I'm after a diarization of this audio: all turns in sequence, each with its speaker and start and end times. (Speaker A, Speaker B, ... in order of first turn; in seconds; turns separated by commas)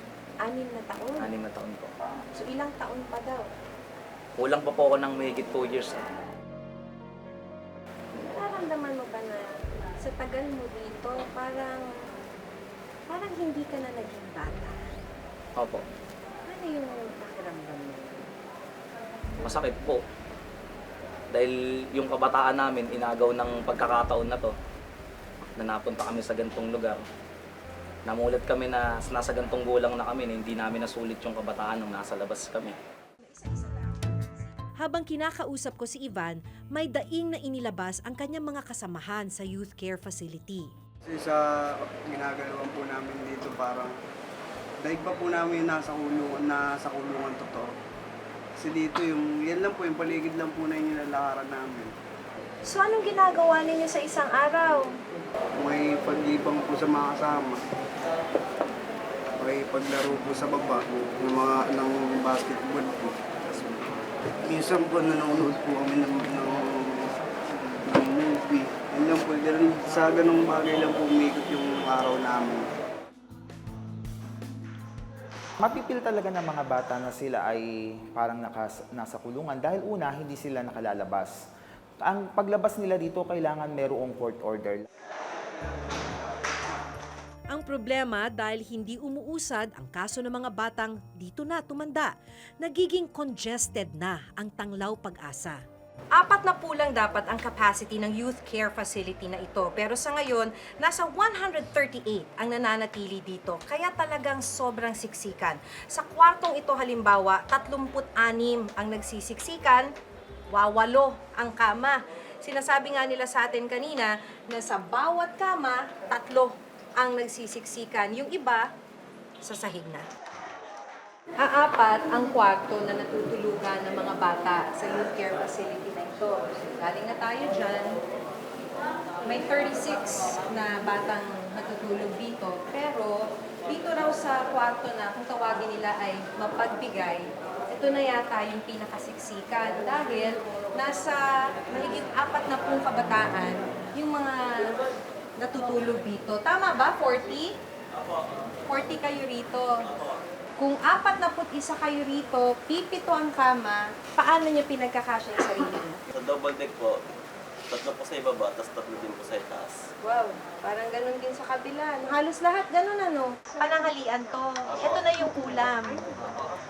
Speaker A: 0.4-1.3, Speaker B: 1.2-1.9, Speaker A: 2.3-3.5, Speaker B: 4.4-6.0, Speaker A: 8.2-9.4, Speaker A: 10.0-11.8, Speaker A: 13.1-14.8, Speaker B: 15.6-15.8, Speaker A: 16.5-18.2, Speaker B: 19.4-20.0, Speaker B: 21.3-24.5, Speaker B: 25.6-27.0, Speaker B: 28.1-32.8, Speaker C: 34.8-40.7, Speaker D: 41.1-43.9, Speaker D: 44.8-47.7, Speaker D: 48.6-51.9, Speaker A: 52.7-55.0, Speaker D: 55.6-57.6, Speaker D: 59.4-63.9, Speaker D: 64.5-67.1, Speaker D: 67.8-72.6, Speaker E: 75.6-81.3, Speaker E: 82.0-84.9, Speaker C: 87.5-95.6, Speaker A: 96.1-109.9, Speaker A: 110.5-118.7, Speaker A: 119.4-120.1, Speaker A: 121.4-128.0, Speaker A: 129.2-144.7, Speaker A: 145.4-147.6, Speaker A: 148.7-149.9, Speaker A: 150.6-156.0, Speaker F: 156.1-157.1, Speaker F: 157.7-159.7, Speaker A: 160.0-166.1